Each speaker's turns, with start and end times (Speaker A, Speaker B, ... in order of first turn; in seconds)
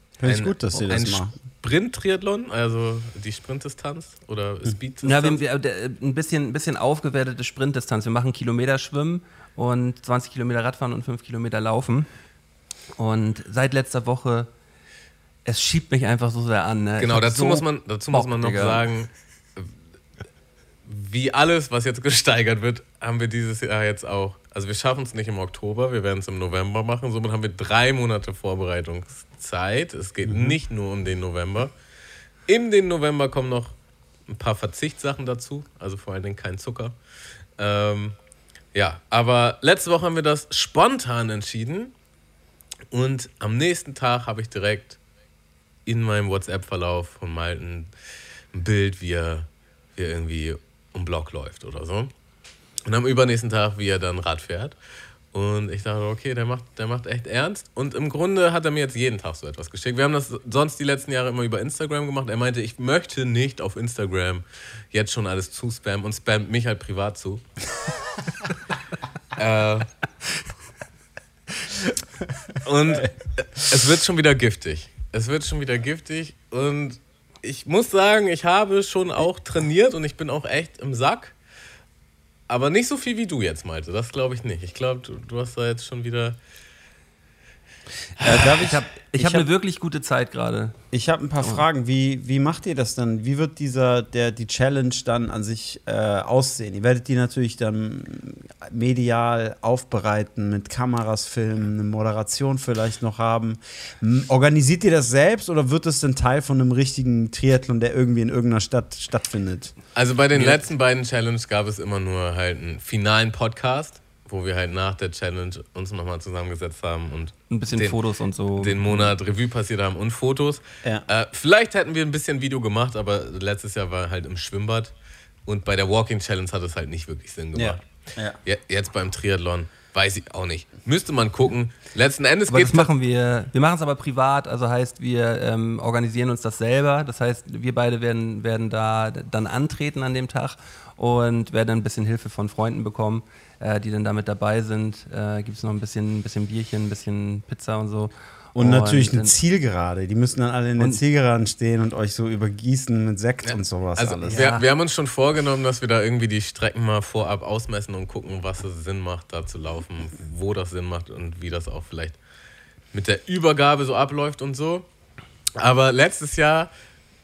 Speaker A: 0.2-1.3, 30.2-30.6, 88.2-89.5, 90.9-109.8, 127.5-128.4, 148.5-154.4
Speaker B: 0.2-5.4, 17.0-19.7, 20.8-31.7, 32.5-33.7, 34.3-36.9, 37.6-38.1, 38.7-41.9, 42.9-45.0, 45.9-47.9, 48.5-52.1, 52.8-54.8, 55.3-67.4, 69.3-69.9, 72.6-81.3, 82.5-86.4, 88.3-88.7, 109.9-118.0, 118.5-124.9, 125.5-132.9, 153.4-162.2, 162.9-164.9, 165.6-166.7
Speaker C: 5.0-12.1, 13.0-14.5, 15.4-18.8, 88.2-90.8, 117.5-119.1, 132.5-149.3, 154.3-154.6